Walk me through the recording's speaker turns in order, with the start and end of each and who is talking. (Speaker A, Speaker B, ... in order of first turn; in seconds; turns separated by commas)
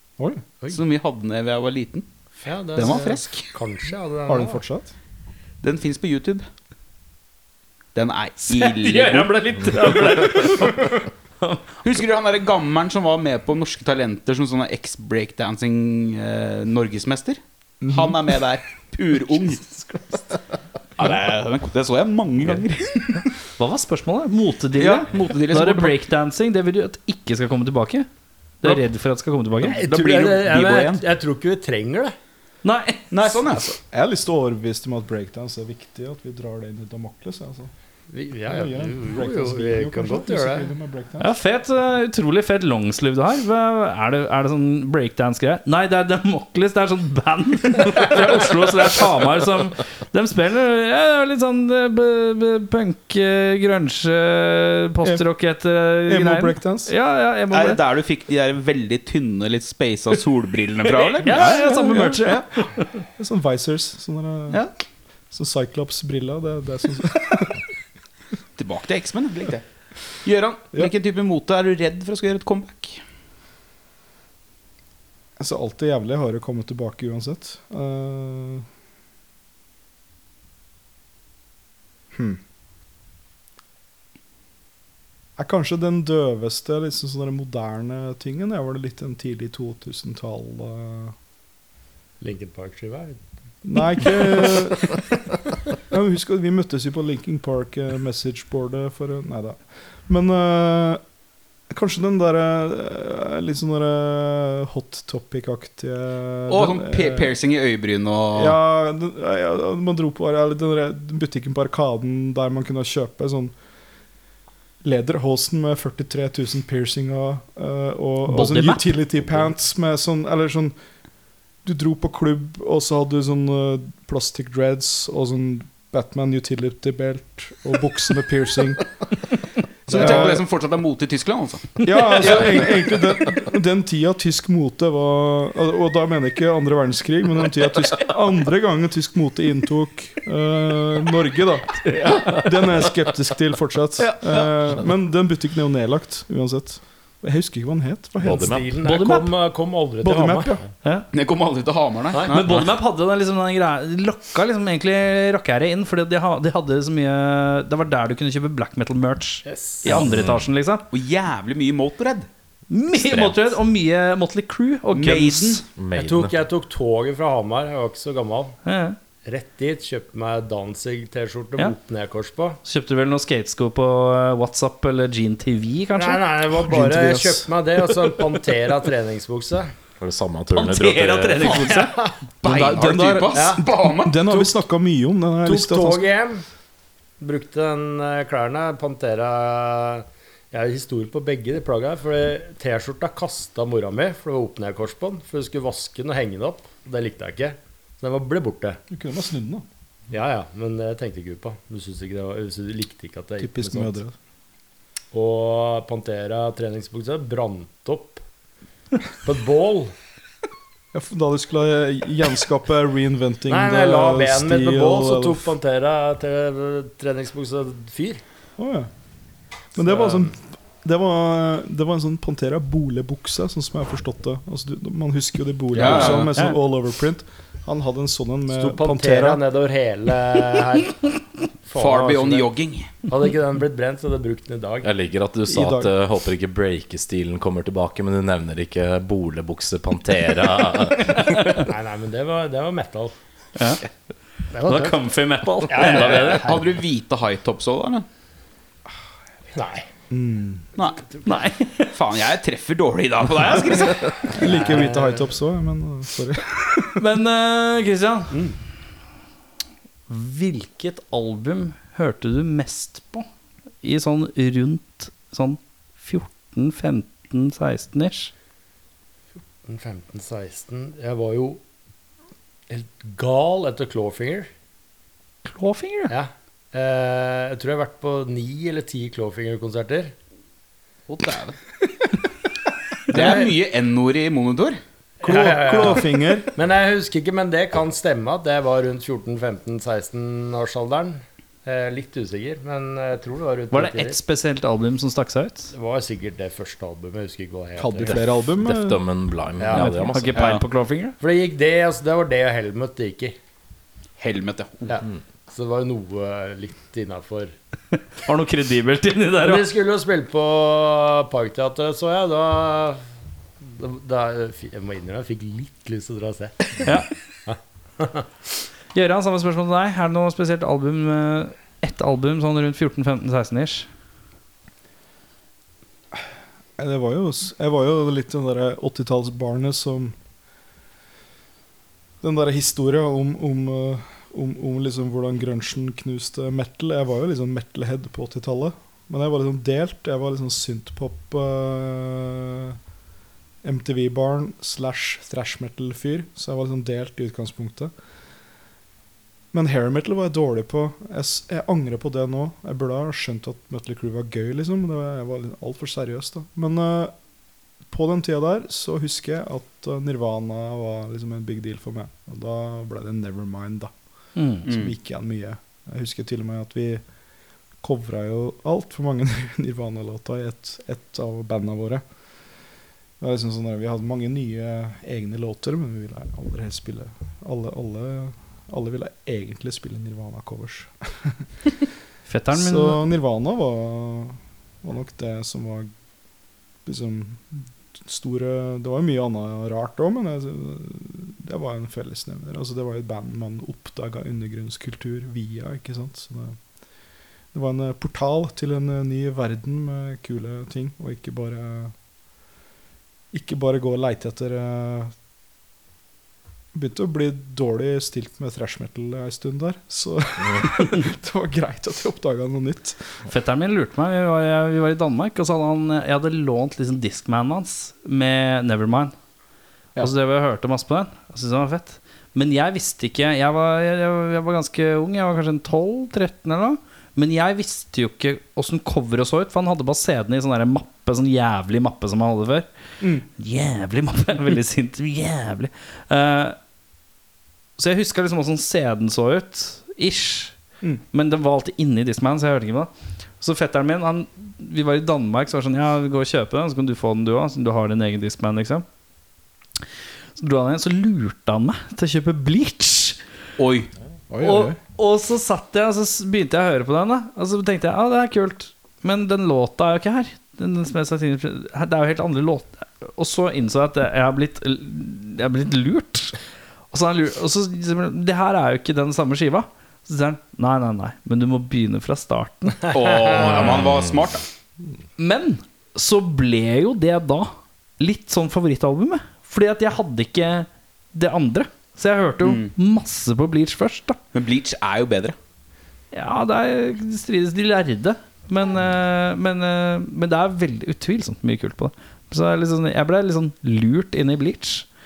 Speaker A: 0.7-2.1, Speaker B: 2.4-4.6, Speaker A: 2.8-3.5, Speaker C: 4.3-4.9, Speaker A: 5.6-6.5, Speaker A: 7.9-9.4, Speaker D: 8.5-11.6, Speaker A: 11.8-19.6, Speaker C: 17.8-18.2, Speaker B: 19.9-20.2, Speaker A: 21.0-23.3, Speaker D: 23.6-28.1, Speaker A: 24.8-26.1, Speaker D: 28.6-29.8, Speaker B: 29.6-32.1, Speaker A: 29.6-31.1, Speaker D: 32.6-33.4, Speaker A: 33.1-33.8, Speaker C: 33.9-37.7, Speaker B: 38.1-40.7, Speaker C: 38.5-41.3, Speaker D: 41.2-57.8, Speaker C: 56.1-56.9, Speaker A: 57.5-61.7, Speaker D: 60.9-63.0, Speaker C: 61.3-64.6, Speaker C: 65.3-67.6, Speaker A: 68.6-69.7, Speaker A: 70.2-73.0, Speaker C: 75.4-78.7, Speaker C: 82.1-82.4, Speaker C: 85.4-91.2, Speaker B: 92.2-93.2, Speaker C: 93.7-95.0, Speaker B: 93.9-94.5, Speaker C: 95.9-101.0, Speaker C: 101.7-107.3, Speaker A: 106.5-108.6, Speaker C: 108.3-113.5, Speaker C: 114.8-120.8, Speaker D: 118.3-118.9, Speaker C: 121.6-128.9, Speaker C: 129.9-130.4, Speaker A: 129.9-132.7, Speaker C: 131.8-148.6, Speaker D: 131.8-132.3, Speaker D: 141.9-142.5, Speaker A: 144.2-144.5, Speaker E: 148.2-148.7, Speaker B: 148.4-150.6, Speaker D: 148.8-149.3, Speaker C: 150.0-150.7, Speaker A: 151.1-152.7, Speaker B: 152.1-152.4, Speaker D: 152.3-160.9, Speaker B: 159.4-160.0, Speaker E: 159.9-160.5, Speaker A: 160.9-162.3, Speaker D: 162.7-165.6, Speaker E: 162.9-163.5, Speaker A: 164.9-165.6, Speaker E: 165.8-166.4, Speaker B: 165.9-168.6, Speaker D: 168.7-169.0, Speaker B: 169.2-172.6, Speaker D: 172.7-176.3, Speaker B: 176.0-179.7, Speaker C: 176.5-177.5, Speaker E: 180.0-181.6, Speaker D: 180.6-182.0, Speaker B: 181.4-182.2, Speaker A: 182.4-184.4, Speaker C: 182.4-186.1, Speaker B: 183.3-183.7, Speaker B: 185.4-186.4, Speaker B: 187.2-198.8, Speaker C: 198.9-199.7, Speaker B: 200.1-203.9, Speaker C: 203.4-204.1, Speaker B: 205.1-208.2, Speaker B: 209.2-209.9, Speaker C: 210.9-215.5, Speaker B: 213.5-218.2, Speaker C: 218.6-218.9, Speaker C: 219.8-229.4, Speaker B: 219.8-220.3, Speaker A: 225.8-226.3, Speaker B: 228.5-231.1, Speaker B: 231.7-232.5, Speaker A: 231.7-232.9, Speaker B: 233.1-234.9, Speaker E: 234.8-241.6, Speaker C: 235.5-235.9, Speaker D: 241.1-241.6, Speaker B: 241.6-243.2, Speaker D: 243.6-243.8, Speaker B: 244.5-245.0, Speaker D: 244.6-246.5, Speaker B: 245.7-246.7, Speaker A: 246.0-248.1, Speaker B: 249.5-249.9, Speaker C: 250.1-250.7, Speaker B: 251.0-251.3, Speaker D: 251.2-251.9, Speaker A: 251.9-254.3, Speaker C: 254.3-257.1, Speaker B: 254.3-255.3, Speaker D: 257.0-258.4, Speaker B: 258.3-258.6, Speaker D: 260.1-263.3, Speaker D: 263.8-268.3, Speaker B: 269.6-271.6, Speaker B: 272.7-274.5, Speaker D: 275.4-276.1, Speaker B: 276.1-280.1, Speaker A: 281.1-281.6, Speaker A: 283.1-284.8, Speaker B: 283.1-283.5, Speaker B: 285.2-294.2, Speaker C: 285.2-286.5, Speaker D: 293.7-295.7, Speaker B: 295.7-298.3, Speaker C: 297.8-299.0, Speaker E: 298.1-300.5, Speaker B: 299.6-300.0, Speaker D: 299.7-301.2, Speaker A: 300.3-300.6, Speaker B: 301.2-303.4, Speaker A: 304.2-305.0, Speaker B: 304.9-307.5, Speaker D: 308.2-309.7, Speaker B: 309.4-313.0, Speaker B: 313.6-316.9, Speaker D: 316.8-317.1, Speaker B: 317.5-318.2, Speaker D: 318.9-323.9, Speaker C: 326.8-330.1, Speaker C: 332.2-342.8, Speaker C: 343.6-347.9, Speaker C: 349.5-357.1, Speaker C: 357.9-363.9, Speaker D: 364.4-364.7, Speaker A: 364.7-364.9, Speaker C: 364.7-367.0, Speaker C: 367.8-372.0, Speaker C: 373.2-381.4, Speaker D: 382.3-383.0, Speaker C: 382.5-385.9, Speaker C: 386.9-396.6, Speaker C: 397.5-401.9, Speaker C: 403.3-405.1, Speaker C: 406.7-413.0, Speaker D: 413.3-419.1, Speaker D: 420.0-432.7, Speaker C: 433.0-433.3, Speaker D: 433.4-436.6, Speaker D: 437.8-440.6, Speaker D: 441.1-448.9, Speaker D: 450.4-453.2, Speaker A: 453.6-453.9, Speaker C: 454.3-454.8, Speaker D: 454.4-466.4, Speaker D: 466.9-473.0, Speaker B: 472.9-473.7, Speaker A: 472.9-474.4, Speaker D: 475.2-484.2, Speaker A: 482.4-482.7, Speaker A: 484.3-485.4, Speaker D: 486.1-494.9